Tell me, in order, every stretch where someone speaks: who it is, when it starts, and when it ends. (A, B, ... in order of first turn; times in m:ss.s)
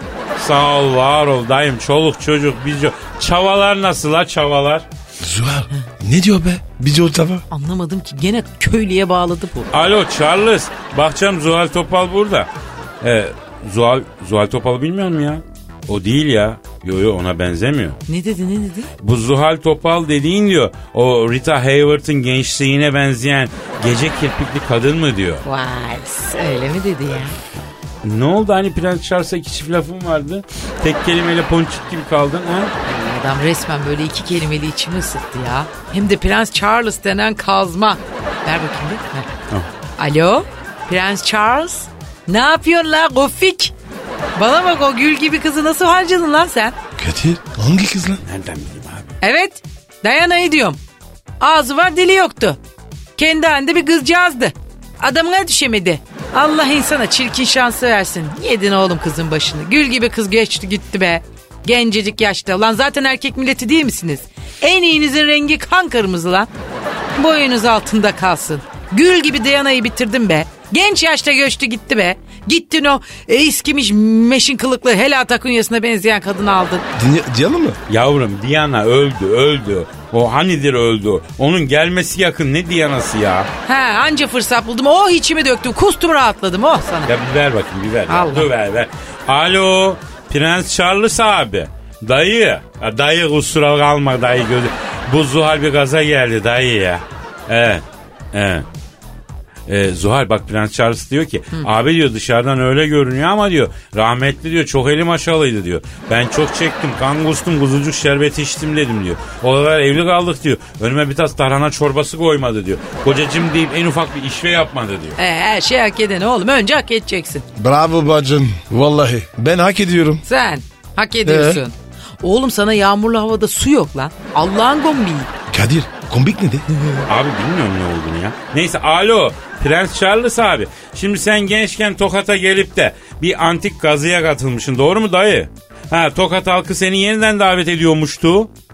0:00.4-0:04.8 A
0:05.2-0:07.4 B
0:07.5-0:09.7 C
0:09.7-0:12.5 A
0:13.0-0:18.0 A
0:18.1-0:18.9 C
0:19.0-0:25.4 A
0:25.4-0:27.4 C
0:28.0-0:32.7 A
0:32.9-0:39.3 C
0:40.0-0:43.7 C
0:44.4-0:46.8 C
0:47.0-0:48.2 B
0:48.2-0:49.1 A
0:49.2-0:50.8 C
0:51.4-0:52.6 C
0:53.2-1:06.5 C
1:07.2-1:16.9 C
1:17.0-1:17.8 B
1:17.9-1:23.5 A
1:23.7-1:27.1 C
1:27.1-1:38.7 A
1:28.1-1:28.5 C
1:39.7-1:55.2 A
1:55.2-1:57.4 C
1:57.6-2:00.2 B
2:00.2-2:05.3 C
2:01.2-2:01.6 B
2:05.5-2:06.6 B
2:07.1-2:18.5 A